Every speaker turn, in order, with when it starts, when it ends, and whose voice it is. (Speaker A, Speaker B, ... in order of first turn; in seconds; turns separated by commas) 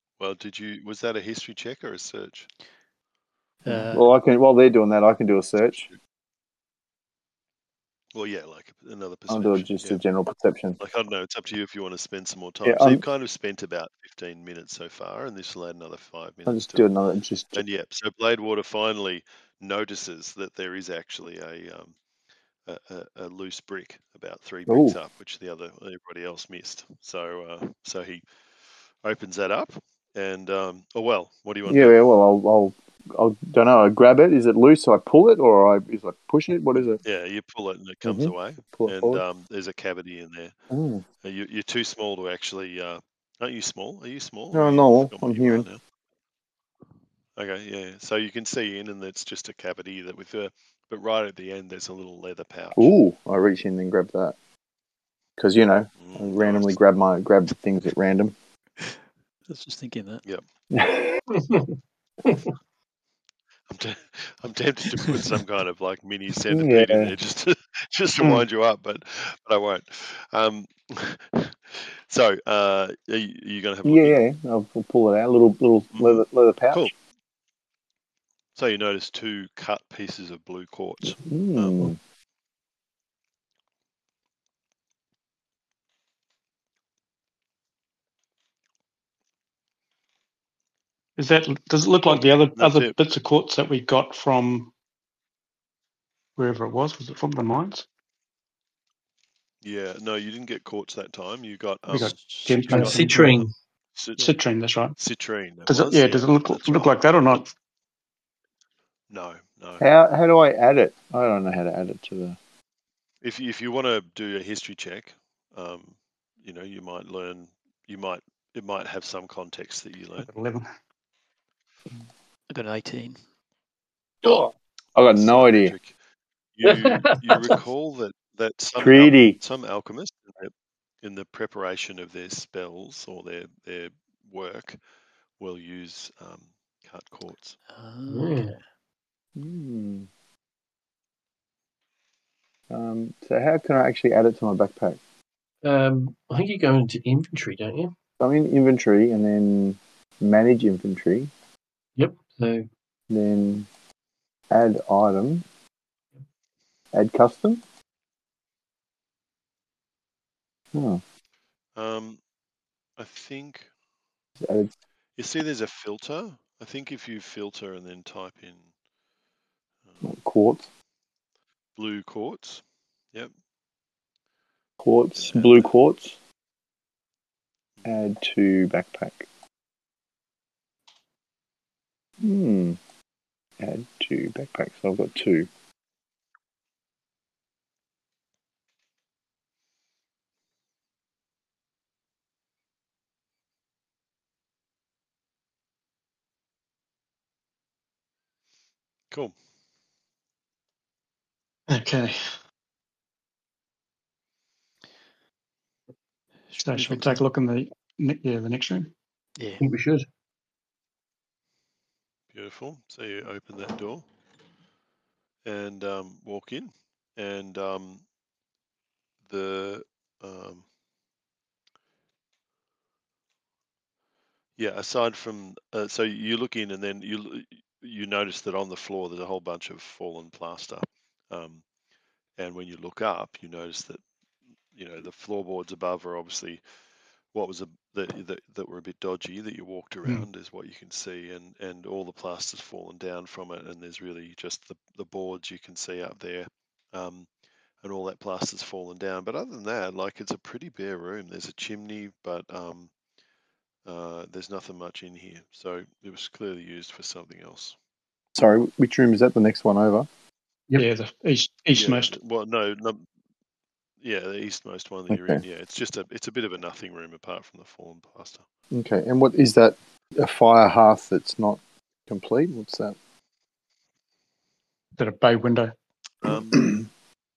Speaker A: 0.2-2.5, Speaker B: 3.6-4.1, Speaker C: 3.7-5.9, Speaker A: 8.1-10.0, Speaker C: 9.3-10.8, Speaker A: 10.8-16.9, Speaker C: 12.6-13.0, Speaker C: 16.5-17.6, Speaker A: 17.5-21.9, Speaker A: 22.7-28.2, Speaker C: 24.7-25.0, Speaker A: 29.0-31.9, Speaker C: 31.7-37.0, Speaker A: 37.0-40.5, Speaker C: 38.0-39.2, Speaker C: 40.7-41.0, Speaker A: 41.2-45.8, Speaker C: 44.5-45.7, Speaker A: 47.4-52.9, Speaker C: 52.8-54.4, Speaker C: 55.4-58.4, Speaker A: 56.0-56.8, Speaker B: 59.5-60.2, Speaker C: 60.7-61.2, Speaker D: 61.3-62.5, Speaker A: 63.7-74.2, Speaker C: 66.5-67.1, Speaker C: 73.8-76.9, Speaker A: 75.9-76.9, Speaker A: 78.6-81.9, Speaker C: 81.2-82.0, Speaker E: 91.2-94.7, Speaker A: 92.1-93.0, Speaker E: 96.4-97.9, Speaker A: 99.6-103.1, Speaker E: 101.9-103.5, Speaker B: 102.0-103.0, Speaker D: 102.7-103.5, Speaker A: 104.0-104.3, Speaker E: 104.2-105.0, Speaker A: 105.0-107.5, Speaker E: 105.7-107.5, Speaker A: 109.1-109.9, Speaker C: 109.8-112.4, Speaker A: 113.2-120.3, Speaker E: 120.2-120.7, Speaker B: 122.5-123.2, Speaker C: 124.2-125.7, Speaker A: 125.1-126.0, Speaker A: 126.6-134.8, Speaker D: 126.6-127.6, Speaker C: 128.8-129.4, Speaker A: 135.4-137.6, Speaker B: 137.7-138.6, Speaker D: 138.1-138.5, Speaker C: 139.4-140.1, Speaker C: 142.7-145.0, Speaker D: 145.6-147.9, Speaker C: 148.2-151.3, Speaker D: 152.0-152.7, Speaker C: 153.1-153.7, Speaker C: 154.5-155.4, Speaker C: 156.9-157.6, Speaker C: 160.7-161.0, Speaker A: 161.8-162.2, Speaker A: 163.0-163.7, Speaker C: 164.4-164.7, Speaker A: 165.2-168.7, Speaker C: 170.0-170.7, Speaker A: 171.8-172.6, Speaker C: 174.8-176.2, Speaker A: 175.2-175.7, Speaker C: 177.8-179.3, Speaker C: 182.2-182.8, Speaker C: 183.6-185.5, Speaker E: 201.7-202.2, Speaker B: 206.5-207.2, Speaker E: 206.6-208.9, Speaker B: 209.4-209.6, Speaker D: 209.6-210.1, Speaker A: 212.3-214.1, Speaker A: 215.4-218.0, Speaker A: 219.3-220.6, Speaker A: 224.6-231.6, Speaker A: 232.4-234.0, Speaker A: 234.7-236.6, Speaker A: 237.3-247.3, Speaker A: 247.8-252.9, Speaker A: 253.8-257.8, Speaker C: 258.4-260.1, Speaker E: 260.8-262.2, Speaker A: 261.8-263.0, Speaker A: 264.0-268.4, Speaker C: 265.1-265.4, Speaker C: 268.7-272.9, Speaker E: 275.0-275.7, Speaker A: 276.2-276.8, Speaker C: 276.5-276.9